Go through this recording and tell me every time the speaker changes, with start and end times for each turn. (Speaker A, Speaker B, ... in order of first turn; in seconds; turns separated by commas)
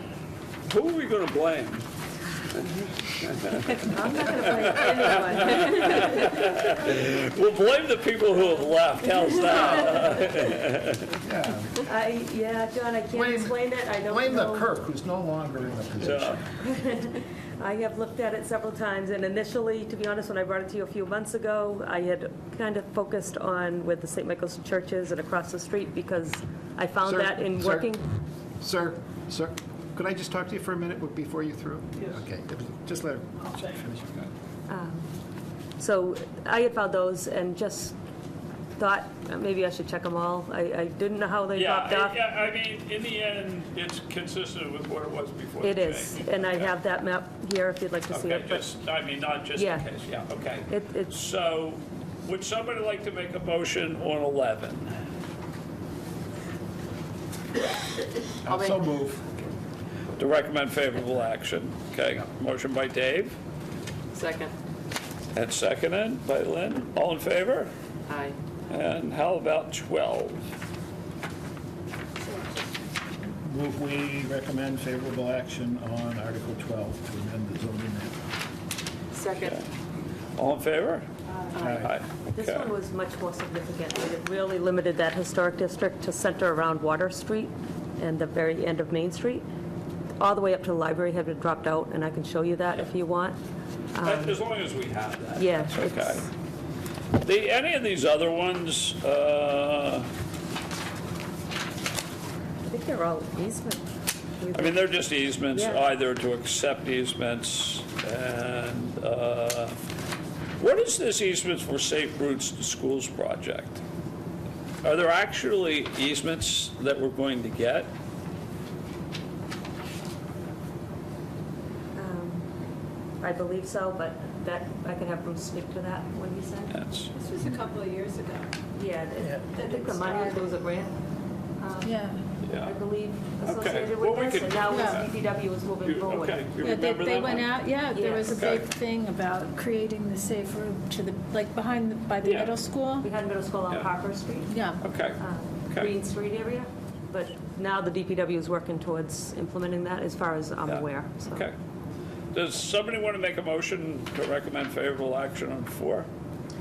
Speaker A: 0.7-1.8, Speaker A: 3.2-3.6, Speaker B: 3.9-6.4, Speaker A: 4.7-5.2, Speaker C: 5.2-5.8, Speaker C: 6.5-6.9, Speaker A: 6.9-11.1, Speaker C: 9.7-10.3, Speaker D: 11.2-11.8, Speaker B: 11.8-14.7, Speaker D: 13.1-16.4, Speaker A: 16.1-16.3, Speaker C: 16.1-16.3, Speaker B: 16.6-28.0, Speaker D: 27.0-27.9, Speaker D: 28.6-34.2, Speaker B: 34.7-35.1, Speaker B: 35.8-37.9, Speaker B: 38.8-42.2, Speaker A: 41.5-46.8, Speaker B: 45.6-48.7, Speaker A: 48.1-55.0, Speaker B: 49.5-49.9, Speaker B: 50.7-51.1, Speaker D: 58.4-59.3, Speaker C: 58.5-58.8, Speaker A: 60.2-63.4, Speaker C: 64.1-64.5, Speaker A: 65.3-67.7, Speaker C: 68.1-68.3, Speaker A: 68.7-70.4, Speaker D: 73.4-78.2, Speaker C: 79.1-79.5, Speaker A: 80.4-81.1, Speaker D: 81.6-81.9, Speaker C: 81.6-82.0, Speaker B: 82.3-89.4, Speaker B: 90.2-93.4, Speaker B: 93.9-94.4, Speaker A: 94.0-96.2, Speaker B: 95.3-96.3, Speaker A: 97.2-100.1, Speaker B: 102.6-103.9, Speaker B: 104.4-105.8, Speaker A: 104.5-109.8, Speaker A: 110.6-113.8, Speaker A: 114.8-117.9, Speaker B: 121.9-122.5, Speaker B: 123.2-126.8, Speaker A: 126.7-127.1, Speaker E: 127.2-128.5, Speaker B: 128.8-131.0, Speaker E: 129.5-130.5, Speaker B: 131.6-132.0, Speaker E: 131.8-132.2, Speaker A: 132.4-132.7, Speaker B: 132.6-136.9, Speaker A: 133.4-135.1, Speaker E: 134.7-135.0, Speaker A: 135.8-137.6, Speaker E: 136.6-143.1, Speaker B: 137.9-138.4, Speaker A: 138.3-138.7, Speaker A: 142.2-142.6, Speaker B: 143.0-144.6, Speaker E: 144.5-144.8, Speaker A: 144.8-145.2, Speaker B: 145.2-151.5, Speaker A: 150.7-151.5, Speaker A: 152.3-156.1